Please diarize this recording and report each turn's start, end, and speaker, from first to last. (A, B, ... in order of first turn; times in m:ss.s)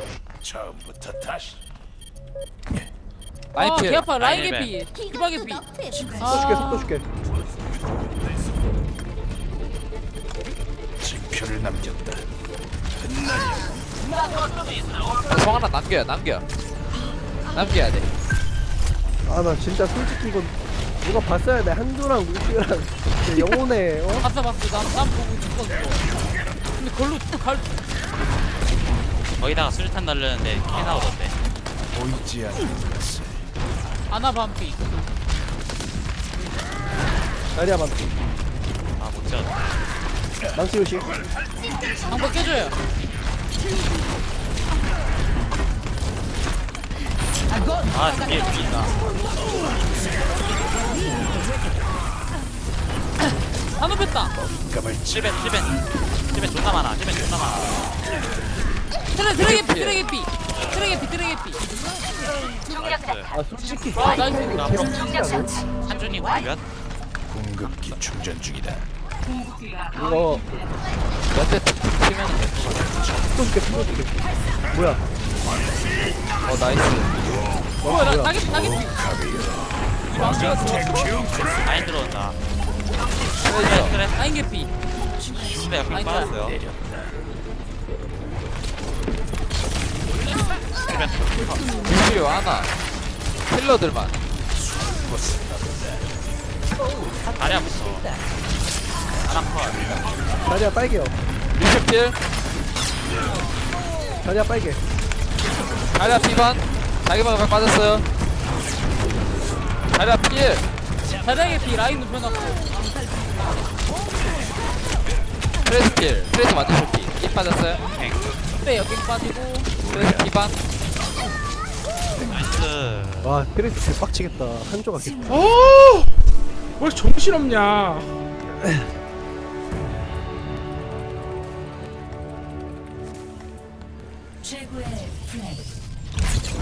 0:00.4-0:01.6 A
0:03.5-0:06.9 B
0:03.6-0:04.1 C
0:04.2-0:04.7 D
0:06.2-0:07.0 E
0:11.0-0:12.2 A
0:15.2-0:16.4 C
0:17.5-0:18.1 C
0:19.2-0:24.3 E
0:24.2-0:26.1 B
0:26.8-0:27.8 B
0:29.4-0:31.3 D
0:31.9-0:33.4 A
0:34.1-0:34.9 B
0:37.5-0:38.1 E
0:39.0-0:39.5 D
0:40.5-0:41.1 E
0:42.0-0:42.8 B
0:47.9-0:48.9 D
0:53.8-0:54.3 B
0:54.4-0:54.8 A
0:55.0-0:57.8 D
0:59.1-1:01.6 B
0:59.3-1:00.0 C
1:00.5-1:00.8 D
1:02.7-1:03.3 D
1:03.3-1:05.6 E
1:04.0-1:05.0 B
1:04.2-1:05.0 D
1:05.8-1:06.6 D
1:07.3-1:08.9 A
1:09.9-1:10.6 E
1:11.3-1:13.0 C
1:13.3-1:15.0 E
1:16.4-1:17.1 C
1:17.8-1:18.4 E
1:17.8-1:19.1 B
1:19.3-1:19.7 A
1:20.2-1:21.2 C
1:20.2-1:20.9 B
1:20.2-1:21.6 A
1:21.6-1:22.4 D
1:23.4-1:24.0 C
1:23.4-1:24.2 D
1:24.1-1:24.7 B
1:25.3-1:26.6 D
1:25.9-1:26.3 B
1:26.6-1:26.9 A
1:30.8-1:31.8 D
1:31.7-1:32.7 C
1:33.5-1:34.1 C
1:34.6-1:36.0 A
1:37.2-1:38.1 D
1:39.2-1:40.0 D
1:40.4-1:41.2 E
1:41.5-1:42.1 C
1:44.2-1:44.8 E
1:45.9-1:48.0 C
1:49.9-1:50.6 C
1:51.2-1:52.7 B
1:55.6-1:57.8 C
1:57.9-1:58.2 D
1:58.6-1:59.7 B
1:59.8-2:00.6 C
2:02.2-2:03.4 D
2:03.2-2:05.5 E
2:05.3-2:06.1 F
2:06.8-2:08.1 F